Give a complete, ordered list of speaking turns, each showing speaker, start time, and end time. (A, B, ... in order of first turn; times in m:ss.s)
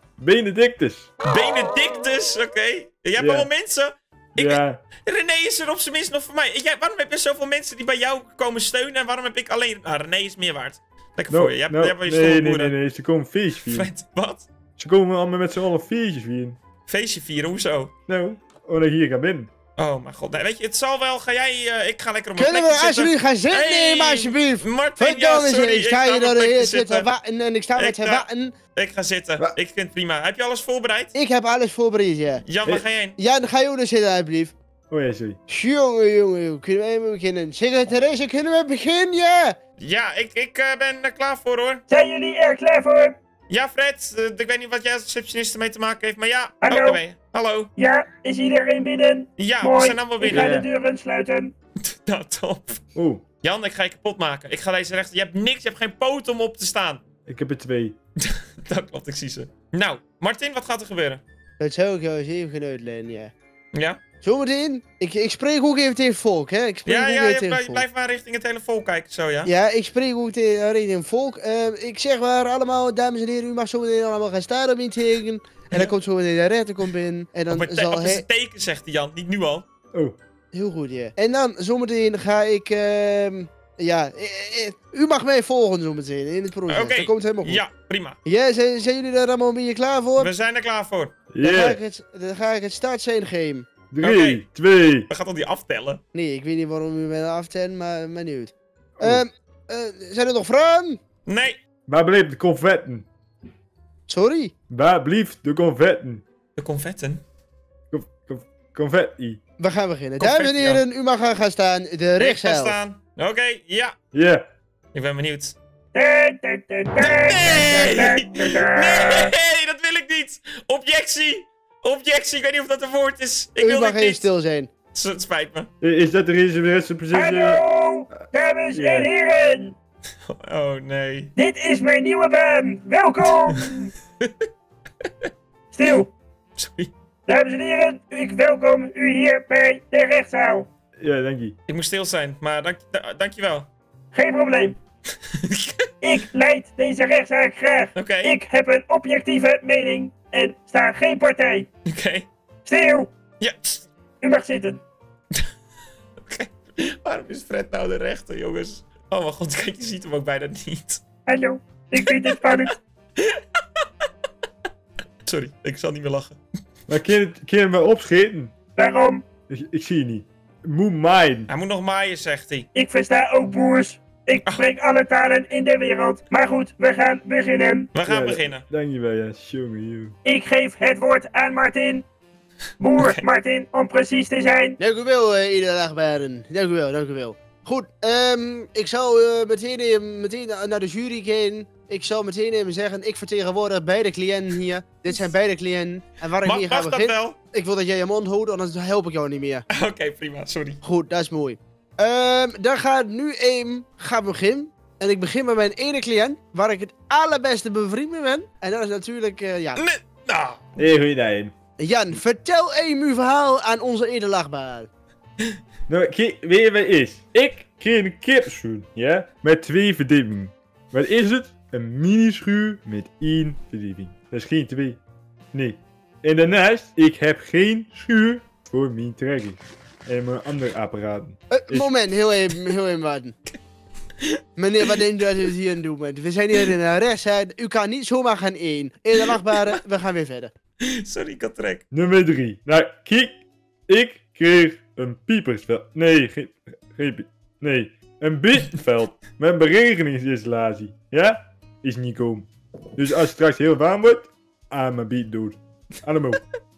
0:00.2-0:01.1 A
0:01.2-0:12.7 B
0:03.2-0:03.5 A
0:04.4-0:04.8 A
0:11.3-0:13.9 A
0:13.7-0:14.5 B
0:14.8-0:16.6 A
0:16.9-0:17.9 B
0:18.1-0:19.5 A
0:19.8-0:27.1 B
0:22.4-0:28.5 C
0:27.8-0:31.1 B
0:31.1-0:32.4 C
0:32.4-0:33.2 B
0:33.2-0:34.5 C
0:34.9-0:35.4 A
0:35.5-0:39.6 C
0:39.8-0:41.8 B
0:41.9-0:43.1 D
0:43.5-0:47.7 B
0:46.6-0:47.0 D
0:47.8-0:51.5 D
0:49.4-0:50.5 B
0:50.3-0:50.6 A
0:51.8-0:52.8 B
0:52.9-0:53.2 A
0:53.4-0:57.0 B
0:57.2-0:58.0 A
0:58.2-1:01.2 B
1:01.6-1:03.3 C
1:03.7-1:04.0 B
1:04.2-1:07.8 C
1:06.8-1:09.5 B
1:09.4-1:18.2 C
1:17.5-1:19.6 B
1:20.5-1:27.6 C
1:26.7-1:28.2 B
1:28.2-1:30.3 C
1:30.2-1:31.1 B
1:31.3-1:31.8 A
1:31.4-1:33.7 C
1:33.9-1:35.1 A
1:34.0-1:34.4 B
1:35.1-1:36.0 B
1:36.1-1:41.0 C
1:39.0-1:39.2 A
1:41.2-1:41.6 B
1:41.9-1:43.1 A
1:44.1-1:44.5 C
1:44.7-1:46.2 A
1:46.6-1:47.2 B
1:47.9-1:49.4 A
1:49.6-1:52.8 C
1:50.2-1:50.8 B
1:52.2-1:53.9 B
1:54.1-1:54.4 A
1:54.9-1:55.6 B
1:55.9-1:59.3 D
1:57.0-2:04.2 B
1:57.7-1:58.1 C
2:03.6-2:04.7 C
2:04.9-2:05.7 B
2:05.8-2:07.6 A
2:07.1-2:09.8 D
2:08.7-2:09.1 A
2:10.2-2:11.3 B
2:11.4-2:13.9 D
2:13.5-2:14.3 B
2:15.7-2:16.1 D
2:16.6-2:16.9 B
2:17.3-2:20.7 D
2:21.0-2:21.6 A
2:21.7-2:23.7 B
2:24.1-2:24.8 D
2:25.2-2:25.9 B
2:26.0-2:31.7 D
2:27.9-2:28.4 B
2:31.8-2:32.3 B
2:32.6-2:33.1 D
2:33.4-2:33.9 B
2:34.2-2:34.8 D
2:36.2-2:41.0 B
2:41.3-2:42.8 D
2:43.2-2:43.4 B
2:45.2-2:46.4 B
2:46.9-2:48.5 A
2:48.8-2:49.2 D
2:49.5-2:51.5 A
2:51.5-2:52.7 B
2:52.7-2:57.9 D
2:57.9-2:58.6 B
2:58.0-3:00.1 A
3:00.2-3:02.0 D
3:02.8-3:04.8 D
3:04.8-3:19.6 C
3:16.4-3:17.4 B
3:19.7-3:20.8 B
3:20.8-3:29.8 C
3:29.8-3:30.6 B
3:30.8-3:31.5 A
3:31.8-3:34.9 C
3:35.9-3:45.0 A
3:45.5-3:51.9 A
3:51.5-3:53.3 C
3:54.6-4:00.5 C
4:00.8-4:01.8 B
4:01.9-4:16.4 A